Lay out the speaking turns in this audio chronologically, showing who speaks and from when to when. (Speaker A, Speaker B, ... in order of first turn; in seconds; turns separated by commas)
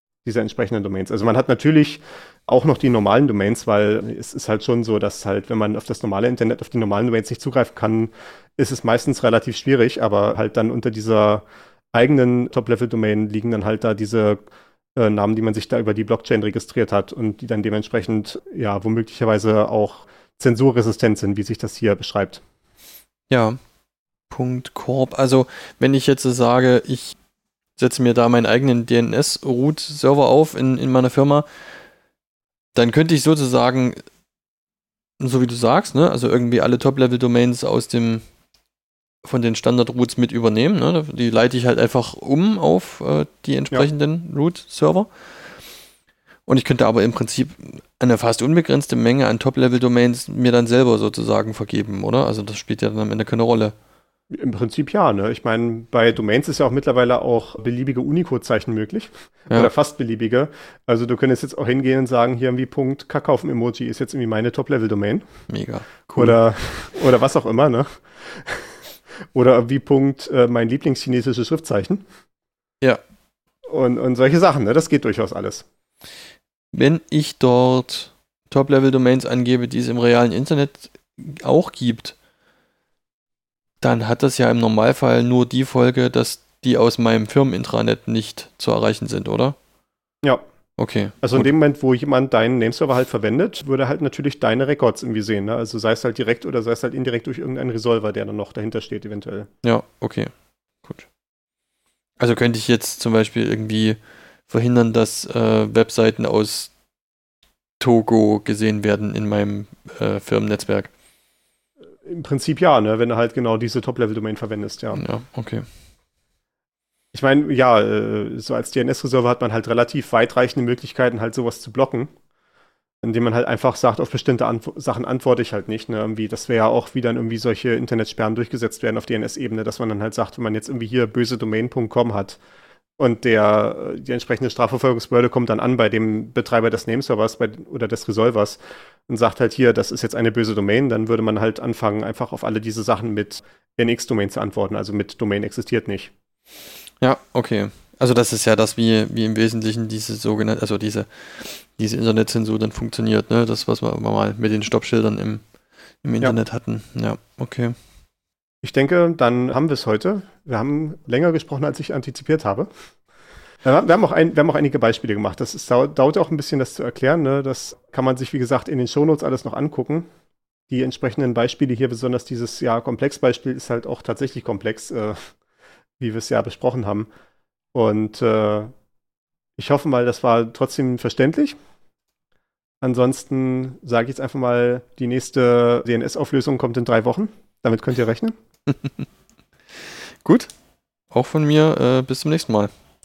Speaker A: 0.2-14.4, Speaker A: 14.9-22.4, Speaker B: 23.3-23.6, Speaker B: 24.3-27.1, Speaker B: 27.8-31.7, Speaker B: 32.7-34.0, Speaker B: 35.2-38.2, Speaker B: 39.2-45.5, Speaker B: 46.5-53.7, Speaker A: 54.3-65.2, Speaker B: 65.5-66.4, Speaker A: 66.2-68.7, Speaker A: 69.3-72.0, Speaker A: 73.7-75.6, Speaker B: 76.7-82.1, Speaker B: 83.8-89.6, Speaker B: 90.8-91.5, Speaker A: 91.2-99.5, Speaker B: 99.6-100.3, Speaker B: 102.2-106.7, Speaker B: 107.8-110.9, Speaker A: 112.1-115.0, Speaker B: 114.9-115.7, Speaker A: 117.1-122.1, Speaker A: 123.0-132.4, Speaker A: 133.0-146.1, Speaker B: 147.0-155.4, Speaker B: 156.0-157.8, Speaker A: 158.6-162.7, Speaker A: 163.6-170.1, Speaker A: 170.7-175.3, Speaker A: 176.0-177.1, Speaker A: 177.7-178.7, Speaker A: 179.6-181.6, Speaker A: 182.8-188.3, Speaker B: 190.2-190.5, Speaker B: 191.1-192.7